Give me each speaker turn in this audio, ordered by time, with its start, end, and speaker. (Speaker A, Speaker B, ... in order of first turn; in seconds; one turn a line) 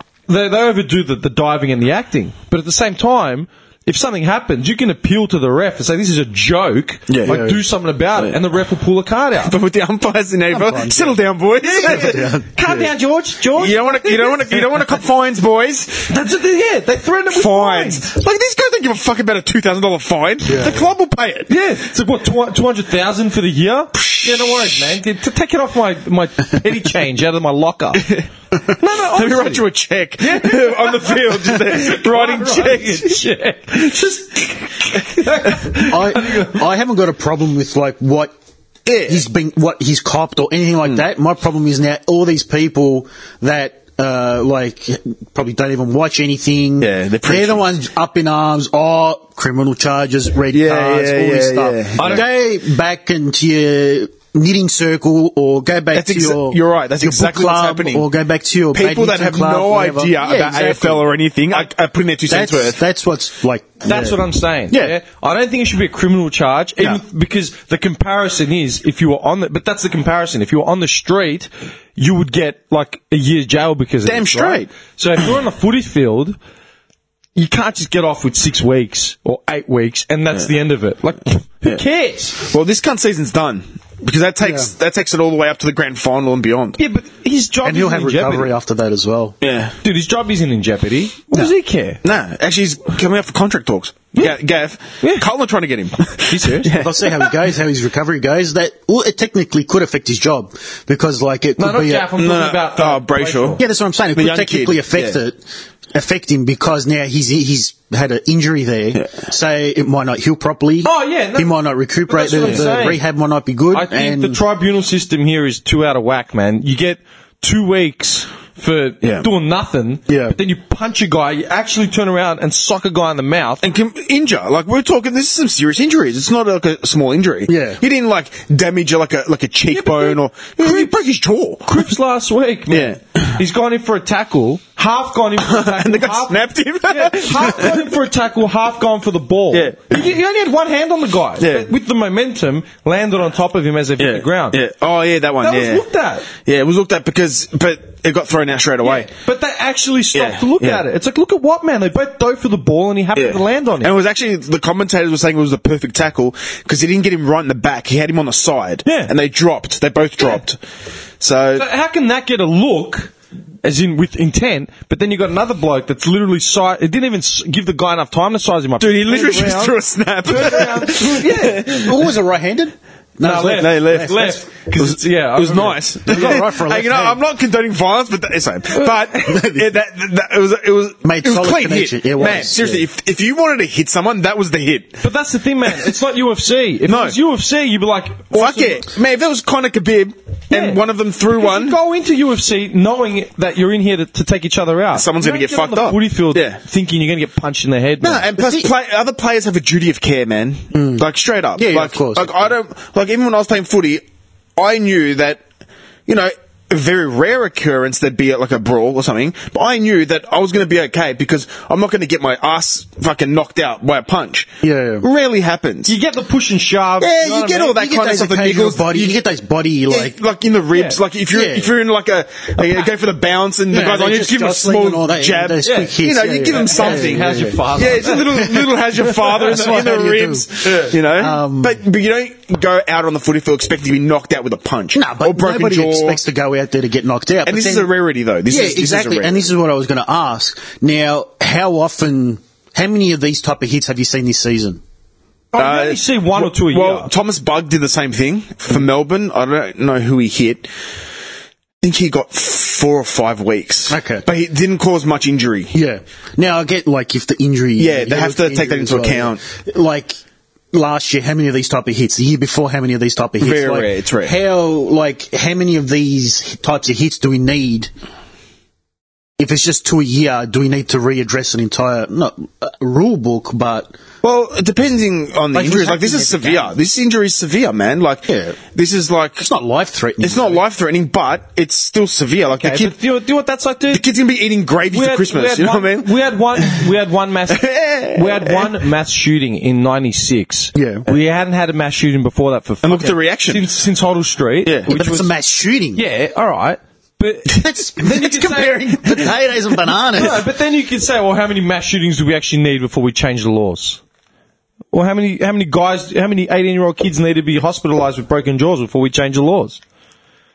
Speaker A: 0.3-9.6
Speaker B: 7.1-7.4
Speaker C: 7.2-7.6
Speaker B: 9.4-12.3
Speaker C: 10.5-11.2
Speaker A: 11.6-14.6
Speaker C: 11.8-12.9
Speaker B: 13.5-16.1
Speaker A: 16.1-18.1
Speaker B: 17.3-21.5
Speaker C: 20.4-20.9
Speaker A: 21.5-28.1
Speaker B: 24.0-24.9
Speaker A: 28.7-29.6
Speaker B: 29.0-33.2
Speaker A: 30.2-36.6
Speaker C: 35.9-38.3
Speaker B: 38.9-39.2
Speaker C: 39.1-61.1
Speaker B: 46.8-47.7
Speaker B: 50.5-52.2
Speaker A: 52.0-52.2
Speaker B: 55.9-58.1
Speaker B: 58.7-62.8
Speaker C: 62.3-65.0
Speaker A: 63.9-76.4
Speaker B: 74.0-74.7
Speaker A: 77.3-82.4
Speaker B: 82.4-86.8
Speaker C: 84.4-84.7
Speaker A: 86.8-88.5
Speaker C: 87.6-89.4
Speaker B: 89.4-89.8
Speaker A: 89.8-92.0
Speaker B: 92.0-97.2
Speaker A: 96.3-96.7
Speaker C: 96.8-102.1
Speaker A: 101.6-103.6
Speaker B: 102.2-103.6
Speaker C: 103.6-114.4
Speaker B: 104.2-105.2
Speaker A: 110.8-111.5
Speaker A: 112.1-113.0
Speaker A: 113.7-123.6
Speaker B: 119.0-119.3
Speaker C: 120.1-120.4
Speaker B: 123.6-131.9
Speaker C: 127.5-127.8
Speaker A: 129.7-130.9
Speaker A: 131.7-136.4
Speaker B: 132.7-133.4
Speaker B: 135.4-137.8
Speaker A: 136.9-144.6
Speaker B: 139.5-140.0
Speaker B: 141.4-141.7
Speaker B: 144.0-149.1
Speaker A: 145.4-146.3
Speaker A: 148.8-153.9
Speaker B: 150.1-150.8
Speaker B: 153.2-160.6
Speaker A: 158.8-159.1
Speaker B: 161.2-161.7
Speaker A: 161.6-171.9
Speaker B: 168.8-172.0
Speaker C: 171.7-174.3
Speaker A: 173.2-176.4
Speaker B: 173.5-185.0
Speaker C: 176.1-177.2
Speaker C: 179.3-179.6
Speaker C: 181.0-182.8
Speaker A: 185.0-188.8
Speaker B: 186.9-187.2
Speaker B: 188.3-191.8
Speaker A: 190.5-190.8
Speaker A: 191.3-198.3
Speaker B: 194.9-196.6
Speaker B: 198.0-204.0
Speaker C: 198.4-198.7
Speaker C: 200.7-202.5
Speaker B: 204.6-205.4
Speaker B: 206.1-214.5
Speaker C: 214.6-215.1
Speaker B: 215.0-215.9
Speaker A: 215.9-217.8
Speaker B: 217.0-219.2
Speaker C: 217.7-220.2
Speaker B: 219.9-236.2
Speaker A: 220.7-221.0
Speaker C: 221.3-221.7
Speaker C: 223.7-227.6
Speaker A: 225.6-225.9
Speaker A: 226.6-228.5
Speaker C: 228.3-228.7
Speaker C: 229.2-231.8
Speaker A: 229.3-229.7
Speaker C: 234.9-237.9
Speaker B: 237.4-239.5
Speaker C: 238.5-244.8
Speaker A: 245.5-247.1
Speaker B: 245.6-250.7
Speaker B: 251.8-255.8
Speaker C: 253.9-254.2
Speaker C: 255.7-260.2
Speaker B: 257.8-259.4
Speaker C: 260.7-267.9
Speaker B: 263.4-264.4
Speaker C: 269.4-274.0
Speaker B: 274.2-279.5
Speaker C: 275.5-276.8
Speaker C: 278.3-278.6
Speaker C: 279.4-280.6
Speaker B: 280.2-282.9
Speaker A: 282.6-284.0
Speaker B: 283.9-286.8
Speaker A: 284.9-295.3
Speaker B: 287.5-288.7
Speaker C: 290.7-291.1
Speaker B: 292.8-293.7
Speaker B: 294.6-294.9
Speaker C: 294.9-296.0
Speaker A: 296.0-299.0
Speaker C: 297.6-300.4
Speaker A: 300.1-304.0
Speaker A: 304.9-309.8